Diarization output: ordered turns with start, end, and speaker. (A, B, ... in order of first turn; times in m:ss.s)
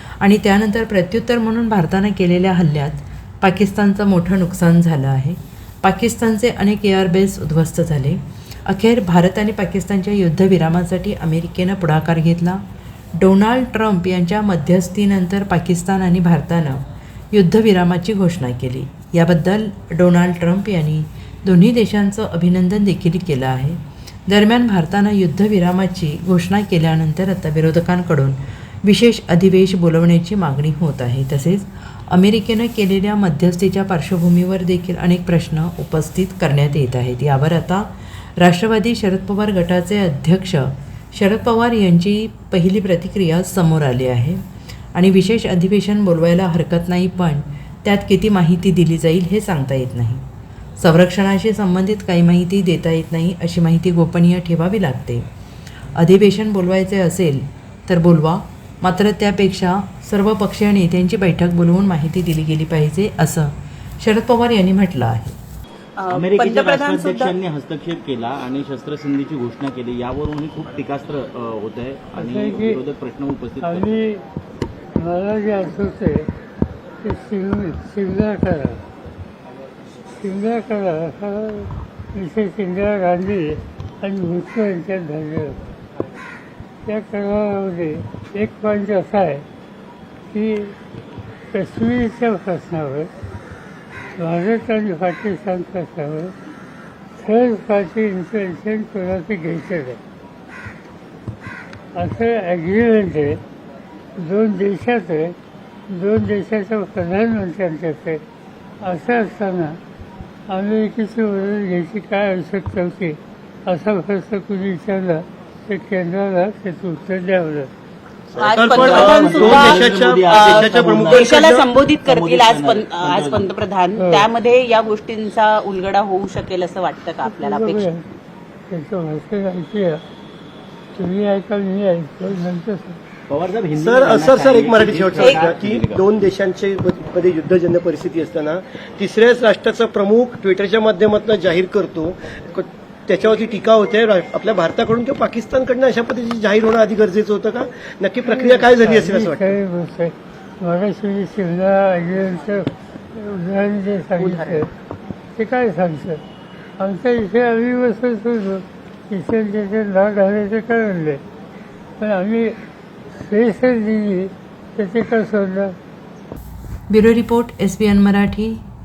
0:00.2-0:12.6 A
0:13.2-0:44.4 A
0:45.0-0:50.2 A
0:50.8-0:55.3 A
0:56.0-1:05.4 A
1:06.0-1:07.3 B
1:06.1-1:13.9 C
1:12.2-1:12.8 D
1:13.6-1:14.2 D
1:15.0-1:16.3 D
1:17.0-1:18.8 D
1:20.2-1:25.6 D
1:26.8-1:29.4 D
1:30.3-1:30.8 D
1:31.5-1:33.1 D
1:34.2-1:36.3 D
1:37.2-1:40.0 D
1:41.9-1:43.4 D
1:44.2-1:45.4 D
1:45.9-1:48.2 D
1:48.8-1:49.8 D
1:50.5-1:57.7 D
1:58.4-2:01.6 E
1:58.4-2:03.5 C
1:58.4-2:07.9 B
2:04.0-2:04.3 D
2:07.3-2:08.1 D
2:08.7-2:10.0 D
2:10.9-2:13.0 D
2:13.3-2:16.1 C
2:13.7-2:29.6 E
2:15.2-2:15.5 B
2:28.2-2:34.7 D
2:34.2-2:34.7 B
2:35.3-2:36.2 D
2:36.8-2:41.2 D
2:42.0-2:42.6 D
2:43.1-2:45.8 D
2:46.9-2:48.6 A